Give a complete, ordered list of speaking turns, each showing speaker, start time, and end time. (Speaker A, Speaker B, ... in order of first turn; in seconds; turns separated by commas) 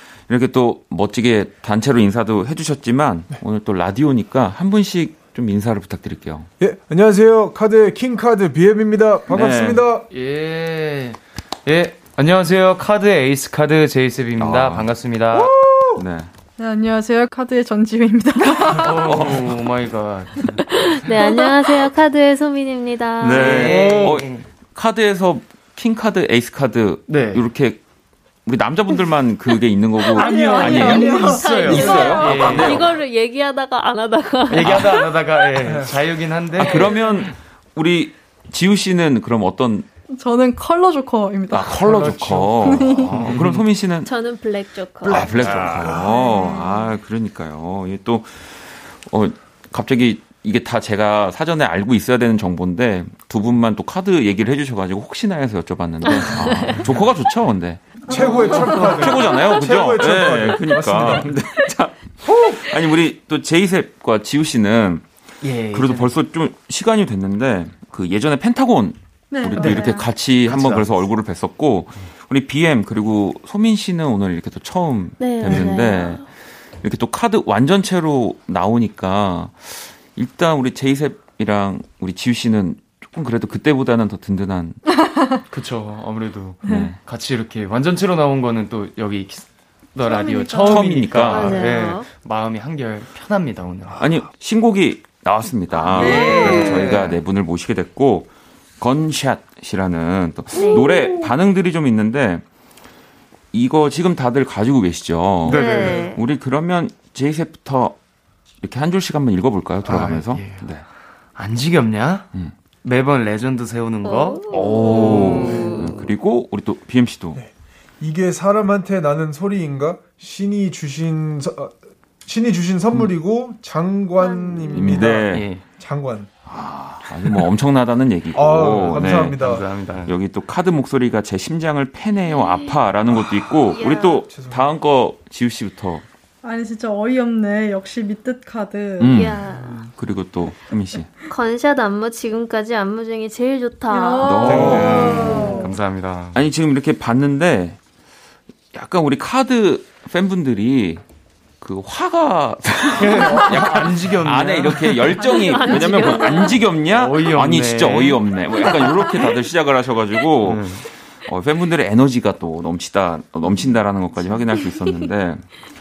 Speaker A: 0.3-6.5, Speaker B: 6.6-10.1, Speaker A: 9.3-9.8, Speaker C: 10.1-15.5, Speaker A: 14.4-14.9, Speaker B: 15.3-16.0, Speaker A: 16.0-16.3, Speaker D: 16.6-19.1, Speaker C: 18.7-20.6, Speaker A: 19.1-19.5, Speaker E: 20.7-23.7, Speaker A: 23.2-27.8, Speaker C: 23.4-24.5, Speaker B: 23.6-24.2, Speaker C: 27.1-27.4, Speaker A: 28.4-32.9, Speaker C: 30.1-32.8, Speaker D: 30.2-32.2, Speaker E: 30.3-30.6, Speaker E: 31.2-35.2, Speaker C: 34.5-37.3, Speaker A: 34.6-35.0, Speaker B: 35.6-36.0, Speaker A: 36.6-39.9, Speaker D: 40.1-41.8, Speaker A: 41.5-44.1, Speaker B: 41.8-42.6, Speaker C: 41.9-43.7, Speaker D: 42.6-43.1, Speaker E: 44.0-45.8, Speaker B: 45.0-46.5, Speaker A: 45.0-65.1, Speaker E: 56.0-56.7, Speaker B: 58.0-61.4, Speaker B: 62.3-62.6, Speaker C: 65.4-66.1, Speaker A: 65.7-76.3, Speaker D: 69.3-69.8, Speaker E: 69.6-70.0, Speaker C: 70.4-70.9, Speaker E: 75.2-76.2, Speaker B: 75.5-75.8, Speaker A: 76.8-84.8, Speaker D: 85.0-85.4, Speaker C: 85.5-94.0, Speaker A: 86.6-87.0, Speaker D: 90.1-90.8, Speaker A: 90.6-91.7, Speaker E: 91.3-92.1, Speaker A: 94.0-102.4, Speaker E: 95.8-96.8, Speaker D: 95.9-96.8, Speaker C: 95.9-97.2, Speaker E: 100.5-101.2, Speaker D: 100.6-101.2, Speaker A: 103.5-108.0, Speaker C: 105.5-106.1, Speaker E: 105.5-106.2, Speaker A: 108.6-110.8, Speaker C: 109.8-112.3, Speaker C: 112.8-115.4, Speaker E: 114.0-116.0, Speaker A: 114.5-117.4, Speaker B: 115.3-115.8, Speaker B: 118.0-121.7, Speaker B: 122.3-126.3, Speaker E: 124.2-125.0, Speaker A: 124.7-125.5, Speaker C: 125.3-125.7, Speaker A: 126.5-129.4, Speaker B: 128.3-129.7, Speaker C: 128.7-130.1, Speaker A: 130.1-136.1, Speaker E: 132.3-132.8, Speaker B: 133.1-134.8, Speaker E: 133.7-134.3, Speaker D: 136.4-139.2, Speaker A: 139.0-141.1, Speaker E: 139.0-139.9, Speaker E: 141.3-145.7, Speaker D: 143.9-145.7, Speaker A: 144.2-145.7, Speaker B: 144.4-145.3, Speaker C: 144.7-146.4, Speaker A: 146.3-147.8, Speaker A: 148.7-151.0, Speaker A: 151.6-165.6, Speaker C: 153.0-155.2, Speaker B: 153.3-153.8, Speaker E: 155.2-156.8, Speaker D: 155.4-156.0, Speaker C: 156.9-158.3, Speaker E: 158.7-159.3, Speaker C: 160.4-160.8